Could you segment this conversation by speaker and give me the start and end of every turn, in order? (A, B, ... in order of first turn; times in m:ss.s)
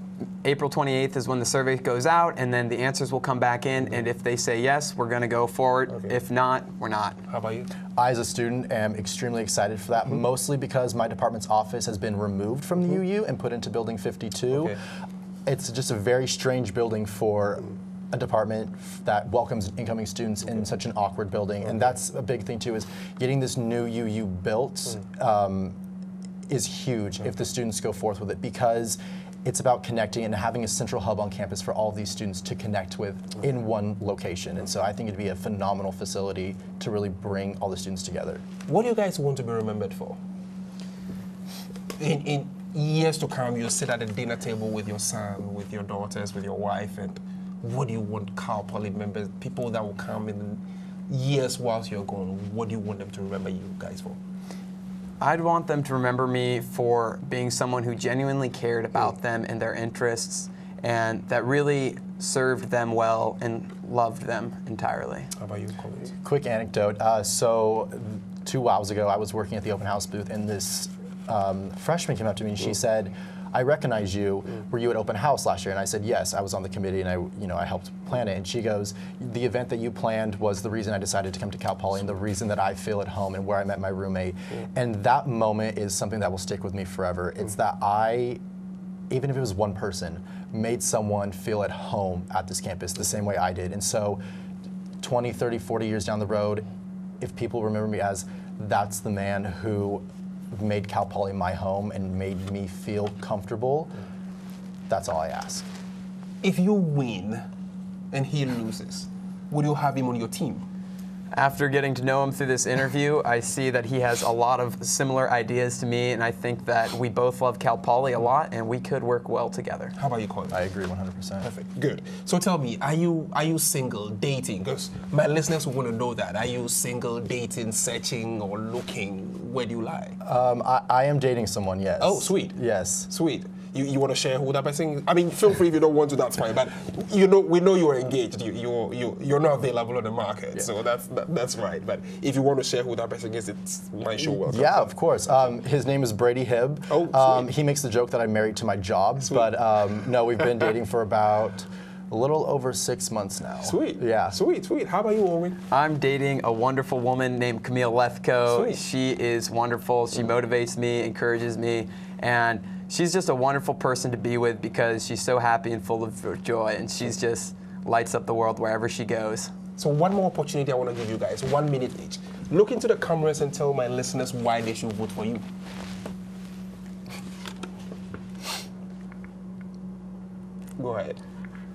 0:00.4-0:07.2 A
0:07.3-0:07.7 B
0:08.0-0:14.8 C
0:14.5-0:14.8 B
0:15.5-0:25.8 C
0:26.5-0:38.4 C
0:38.7-0:40.2 B
0:42.0-0:54.2 B
0:55.2-1:05.3 A
1:05.4-1:06.1 B
1:06.2-1:28.4 C
1:29.1-1:34.2 C
1:35.0-1:36.7 C
1:37.2-1:43.9 C
1:44.9-1:45.7 C
1:46.4-1:47.4 B
1:48.1-1:50.7 B
1:51.3-1:59.9 A
2:00.0-2:00.6 B
2:00.5-2:01.5 C
2:01.4-2:10.2 B
2:10.2-2:13.1 C
2:12.0-2:12.6 B
2:13.1-2:24.9 B
2:24.2-2:34.4 C
2:26.9-2:27.5 B
2:29.2-2:29.5 B
2:33.6-2:35.6 B
2:35.7-2:49.5 A
2:38.5-2:38.8 B
2:49.8-2:55.4 B
3:00.8-3:01.2 B